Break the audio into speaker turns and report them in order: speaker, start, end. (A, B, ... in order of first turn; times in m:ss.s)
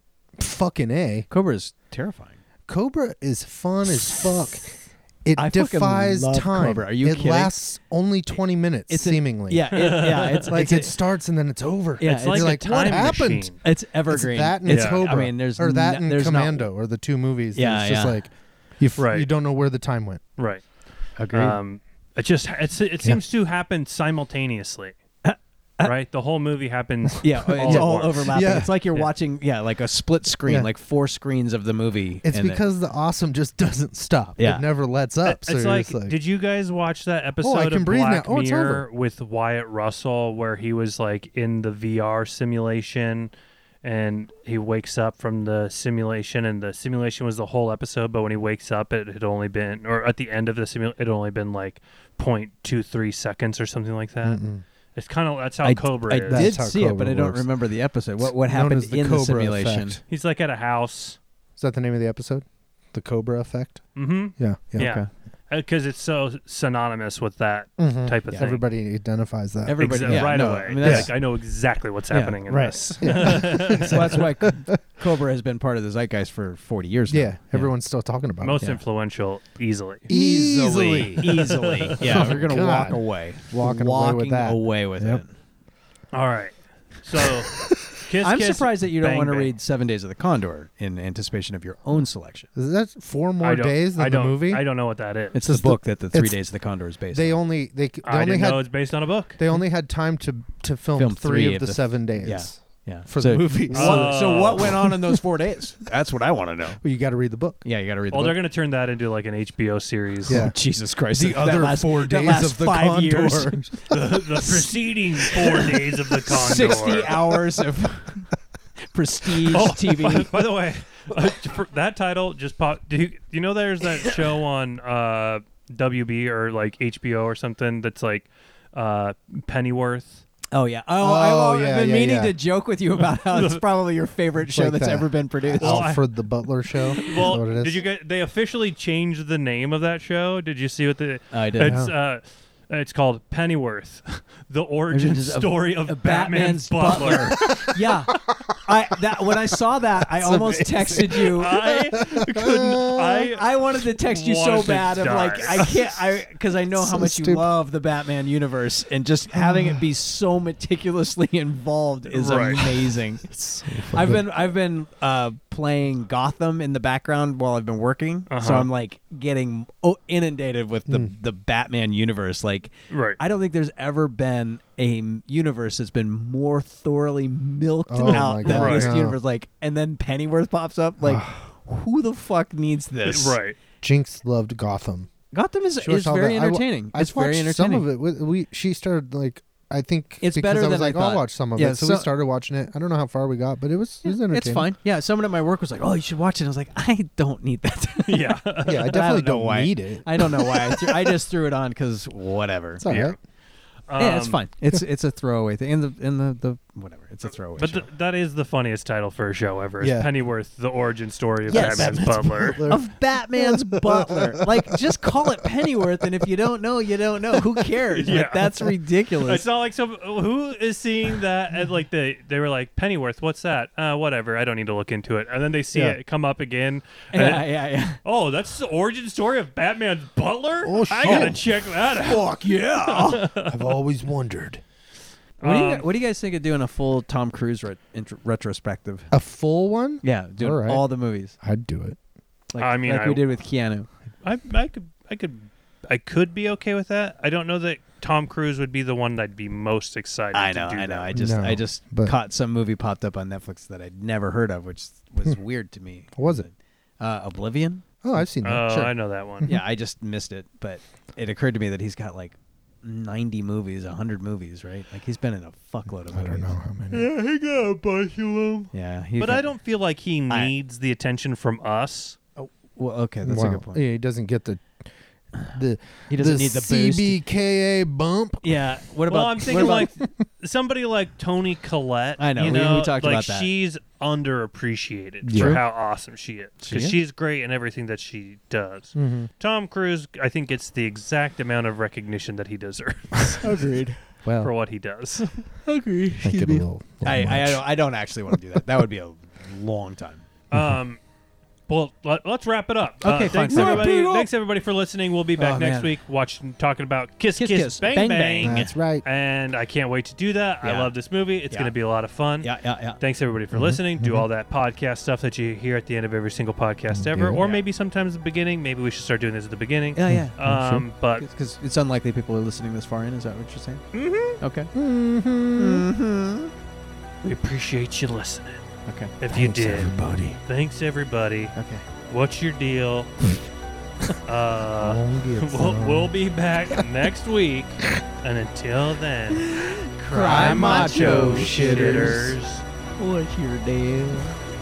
0:00.4-0:01.3 A
0:01.3-0:02.4 B
0:02.7-0:13.6 A
0:05.4-0:07.5 B
0:08.9-0:10.9 B
0:09.7-0:10.4 C
0:12.0-0:16.6 B
0:12.0-0:13.6 C
0:14.1-0:20.2 A
0:14.7-0:15.0 C
0:17.5-0:18.2 B
0:19.0-0:19.3 C
0:20.4-0:20.6 C
0:21.2-0:21.6 B
0:21.3-0:25.0 C
0:25.2-0:25.9 B
0:25.8-0:29.1 C
0:27.2-0:32.6 B
0:27.5-0:28.7 A
0:32.2-0:36.2 A
0:34.4-0:34.6 B
0:35.2-0:43.3 C
0:37.4-0:38.8 A
0:43.8-0:54.4 C
0:54.2-0:54.6 A
0:54.9-0:56.5 C
0:55.6-1:00.0 B
0:56.3-0:57.4 A
0:58.2-1:00.0 A
1:00.1-1:01.2 C
1:01.6-1:03.8 A
1:04.0-1:08.6 C
1:04.4-1:04.9 A
1:04.8-1:05.1 B
1:07.8-1:11.1 A
1:09.6-1:11.1 B
1:09.8-1:14.2 C
1:12.1-1:12.4 B
1:12.5-1:14.8 A
1:13.0-1:17.7 B
1:17.1-1:18.7 A
1:18.4-1:20.1 C
1:20.1-1:21.5 A
1:20.1-1:25.3 B
1:20.8-1:22.2 C
1:22.0-1:25.2 A
1:26.1-1:29.5 C
1:28.2-1:32.5 B
1:32.6-1:34.6 A
1:33.4-1:35.4 C
1:35.3-1:37.4 B
1:35.4-1:36.4 A
1:37.1-1:38.7 A
1:38.0-1:39.4 C
1:39.4-1:45.2 A
1:41.0-1:46.8 B
1:43.7-1:44.8 C
1:46.8-1:47.6 A
1:47.6-1:48.4 B
1:48.1-1:50.4 C
1:50.3-1:50.6 A
1:50.3-1:53.7 B
1:51.1-1:54.6 A
1:53.9-1:57.2 C
1:56.3-1:58.3 B
1:56.5-1:57.2 A
1:58.9-2:00.3 B
1:59.5-2:10.2 C
2:10.5-2:15.9 B
2:11.0-2:12.3 A
2:13.1-2:13.6 C
2:14.4-2:17.8 A
2:15.6-2:16.1 C
2:16.9-2:27.6 C
2:21.3-2:21.8 B
2:21.6-2:21.9 A
2:24.9-2:31.7 B
2:27.3-2:27.7 A
2:30.1-2:33.3 A
2:31.3-2:35.9 C
2:33.2-2:43.2 B
2:36.7-2:37.5 A
2:39.3-2:39.8 A
2:42.1-2:42.9 C
2:43.2-2:44.2 A
2:43.9-3:03.4 B
2:48.3-2:48.7 C
2:50.9-2:51.1 A
2:52.9-2:53.2 C
2:57.9-2:59.2 A
2:58.0-2:58.9 C
3:01.0-3:01.5 A
3:03.0-3:03.6 C
3:03.8-3:05.1 A
3:05.3-3:07.9 B
3:05.8-3:14.7 A
3:10.2-3:12.1 B
3:14.1-3:22.8 B
3:18.0-3:18.9 C
3:18.6-3:21.1 A
3:22.8-3:23.2 A
3:22.9-3:23.2 C
3:23.9-3:24.4 C
3:24.0-3:27.8 B
3:27.6-3:32.7 C
3:29.8-3:30.1 A
3:31.5-3:34.4 A
3:31.5-3:39.4 B
3:38.0-3:38.6 C
3:39.2-3:52.3 C
3:45.7-3:46.0 A
3:47.1-3:48.0 B
3:50.6-3:51.4 A
3:51.0-3:53.3 B
3:52.8-3:53.6 C
3:53.4-3:54.6 A
3:55.4-3:55.9 C
3:55.4-3:59.1 B
3:59.1-4:00.8 A
4:00.0-4:01.3 B
4:01.4-4:02.0 A
4:02.5-4:03.9 B
4:02.6-4:03.2 C
4:04.2-4:11.1 C
4:10.3-4:17.8 B
4:11.1-4:12.1 A
4:16.2-4:16.4 A
4:18.0-4:18.9 A
4:18.4-4:19.5 C
4:19.4-4:26.5 B
4:26.1-4:27.1 A
4:26.9-4:32.2 C
4:28.7-4:29.5 B
4:32.4-4:33.8 B
4:33.2-4:34.8 A
4:35.5-4:38.4 A
4:36.1-4:37.2 B
4:38.4-4:39.9 B
4:39.1-4:53.6 C
4:42.2-4:43.5 B
4:45.2-4:45.6 A
4:45.3-4:45.6 B
4:46.6-4:47.0 B
4:49.0-4:49.3 A
4:53.4-4:54.0 B
4:54.2-4:54.5 A
4:54.4-4:55.5 C
4:55.6-5:00.2 B
4:56.2-4:57.6 A
5:00.5-5:01.0 C
5:01.7-5:21.2 C
5:03.0-5:04.3 B
5:03.5-5:03.9 A
5:05.4-5:05.9 B
5:07.4-5:08.7 B
5:08.4-5:09.0 A
5:10.6-5:10.9 B
5:11.5-5:11.7 B
5:12.4-5:13.0 B
5:13.5-5:14.2 A
5:16.9-5:17.4 A
5:19.9-5:20.4 B
5:20.1-5:20.8 A
5:21.2-5:23.8 B
5:23.9-5:24.4 C
5:24.4-5:24.7 B
5:24.7-5:25.9 A
5:25.6-5:26.5 B
5:27.2-5:28.6 C
5:28.9-5:29.1 B
5:29.2-5:29.9 C
5:29.3-5:30.4 A
5:30.4-5:31.5 C
5:31.5-5:31.8 B
5:32.1-5:33.1 C
5:34.2-5:42.6 C
5:34.8-5:36.1 A
5:39.3-5:42.3 B
5:40.2-5:42.3 A
5:43.0-5:44.4 B